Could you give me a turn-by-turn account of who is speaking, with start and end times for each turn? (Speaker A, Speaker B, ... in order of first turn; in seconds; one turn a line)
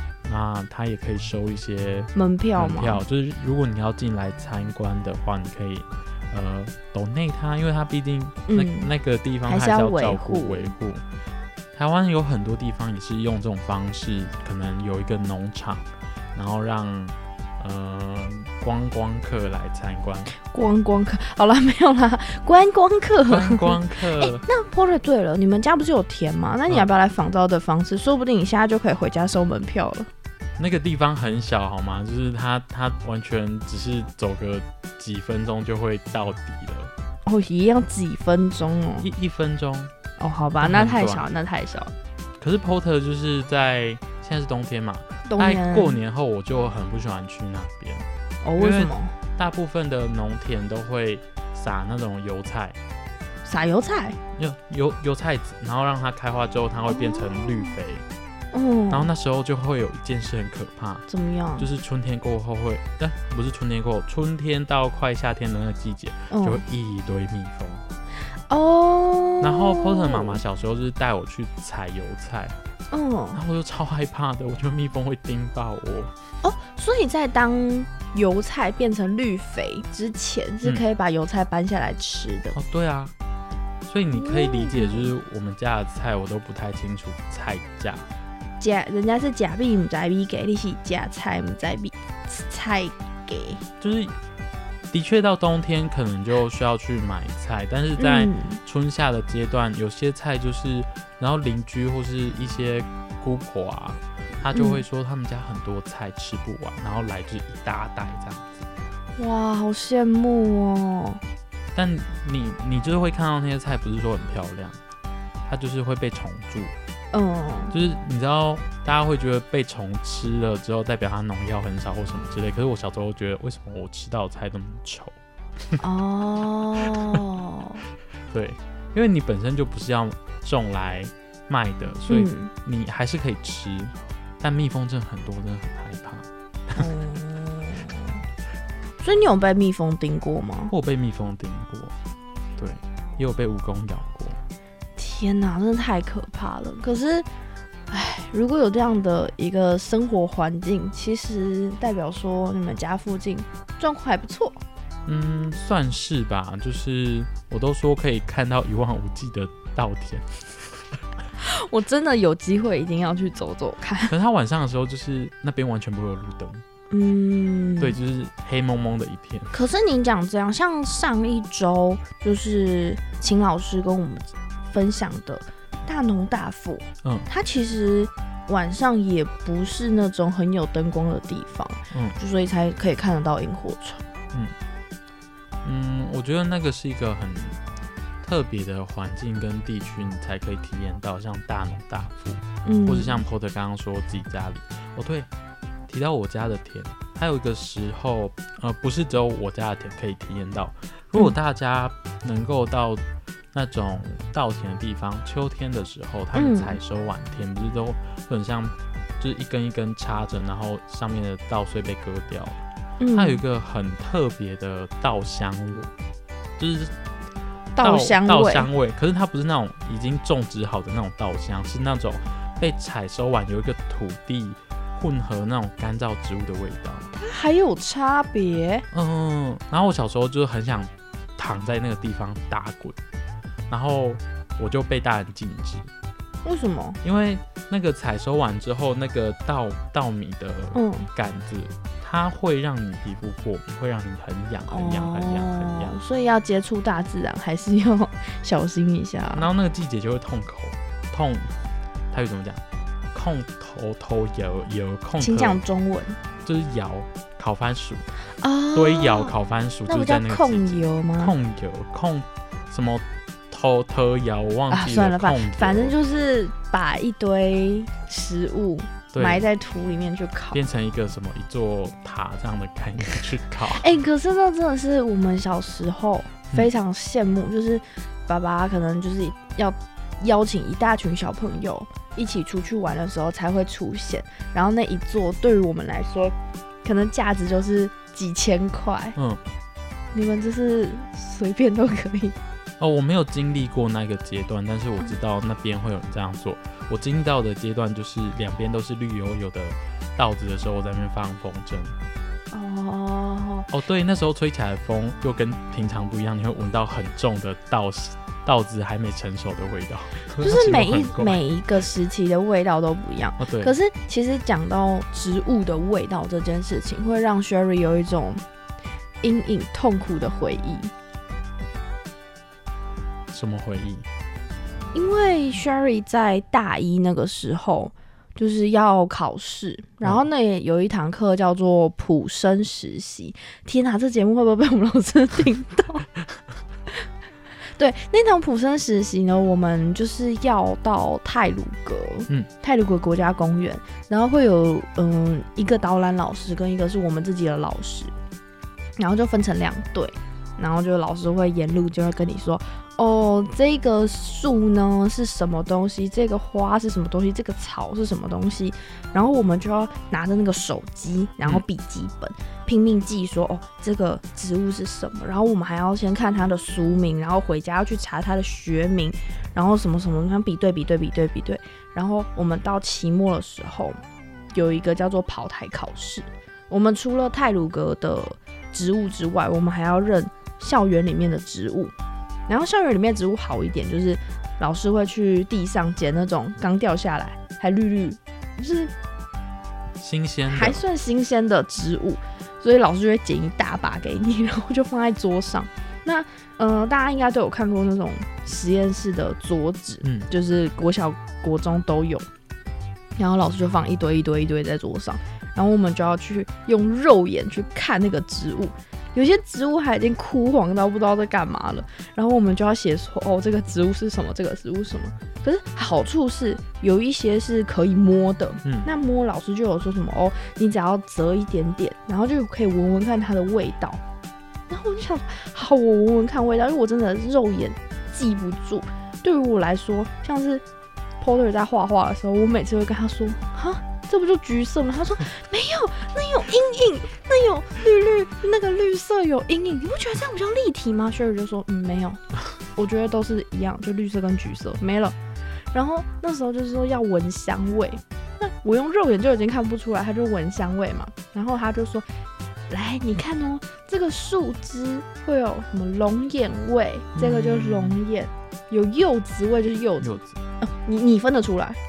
Speaker A: 0.2-11.0
Speaker B: 2.1-3.0
Speaker B: 8.5-8.9
Speaker B: 9.5-10.7
Speaker A: 11.7-20.3
Speaker B: 20.3-30.1
Speaker A: 23.3-24.4
Speaker A: 30.6-36.9
Speaker B: 37.3-39.1
Speaker A: 39.0-39.9
Speaker B: 40.2-41.9
Speaker A: 40.6-41.2
Speaker A: 42.4-48.1
Speaker B: 45.3-46.0
Speaker B: 48.4-49.1
Speaker A: 48.6-52.8
Speaker B: 53.5-54.2
Speaker A: 54.4-58.1
Speaker B: 56.9-57.8
Speaker B: 58.5-59.1
Speaker A: 58.9-61.1
Speaker B: 61.1-61.7
Speaker A: 61.6-67.8
Speaker B: 66.3-66.6
Speaker B: 68.5-70.4
Speaker A: 69.4-72.6
Speaker B: 72.9-73.4
Speaker A: 73.3-76.1
Speaker B: 76.4-82.6
Speaker A: 82.5-83.1
Speaker A: 83.8-88.1
Speaker B: 84.1-85.1
Speaker B: 88.6-93.7
Speaker A: 93.8-94.1
Speaker A: 94.9-108.7
Speaker B: 98.0-98.6
Speaker B: 104.5-104.8
Speaker B: 109.2-111.2
Speaker A: 111.7-114.8
Speaker A: 115.5-116.7
Speaker B: 117.1-117.7
Speaker A: 117.7-125.2
Speaker B: 125.8-127.8
Speaker A: 128.3-136.9
Speaker B: 132.1-132.5
Speaker B: 136.8-138.2
Speaker B: 139.0-140.7
Speaker A: 140.7-141.9
Speaker A: 142.6-144.4
Speaker B: 145.0-147.3
Speaker B: 147.9-154.6
Speaker A: 155.1-160.8
Speaker B: 161.4-164.1
Speaker A: 164.1-166.6
Speaker B: 166.9-168.0
Speaker A: 167.8-169.5
Speaker B: 169.5-184.1
Speaker A: 177.0-177.3
Speaker A: 181.9-182.2
Speaker A: 185.6-187.6
Speaker A: 188.2-195.3
Speaker B: 192.7-193.2
Speaker A: 195.9-212.6
Speaker B: 206.3-206.8
Speaker B: 213.0-213.4
Speaker A: 213.1-215.9
Speaker A: 216.6-216.9
Speaker B: 217.8-218.7
Speaker A: 217.8-227.1
Speaker B: 227.1-228.9
Speaker A: 228.9-233.0
Speaker A: 233.7-235.9
Speaker B: 236.4-237.0
Speaker A: 237.0-245.9
Speaker B: 240.7-241.1
Speaker B: 244.7-249.5
Speaker A: 249.3-251.5
Speaker A: 252.1-252.6
Speaker A: 253.1-255.6
Speaker B: 255.2-256.2
Speaker A: 256.4-258.1
Speaker B: 258.4-259.4
Speaker A: 258.7-266.0
Speaker B: 259.9-261.4
Speaker B: 264.7-270.6
Speaker A: 269.1-269.5
Speaker A: 270.5-273.9
Speaker B: 273.7-289.2
Speaker A: 289.2-289.4
Speaker B: 290.1-292.4
Speaker A: 292.8-302.0
Speaker B: 302.5-303.7
Speaker A: 303.7-311.4
Speaker B: 310.4-318.4
Speaker A: 313.4-313.7
Speaker B: 319.2-320.9
Speaker A: 323.3-324.1
Speaker B: 324.9-336.1
Speaker B: 337.8-348.1
Speaker B: 349.0-374.0
Speaker B: 374.5-381.9
Speaker B: 382.5-388.9
Speaker A: 390.0-390.8
Speaker B: 390.5-402.3
Speaker A: 400.0-400.3
Speaker B: 403.2-424.0
Speaker B: 424.7-430.6
Speaker B: 431.2-442.2
Speaker B: 442.8-445.2
Speaker B: 445.7-452.1
Speaker B: 452.7-461.8
Speaker A: 457.1-458.0
Speaker A: 460.0-460.4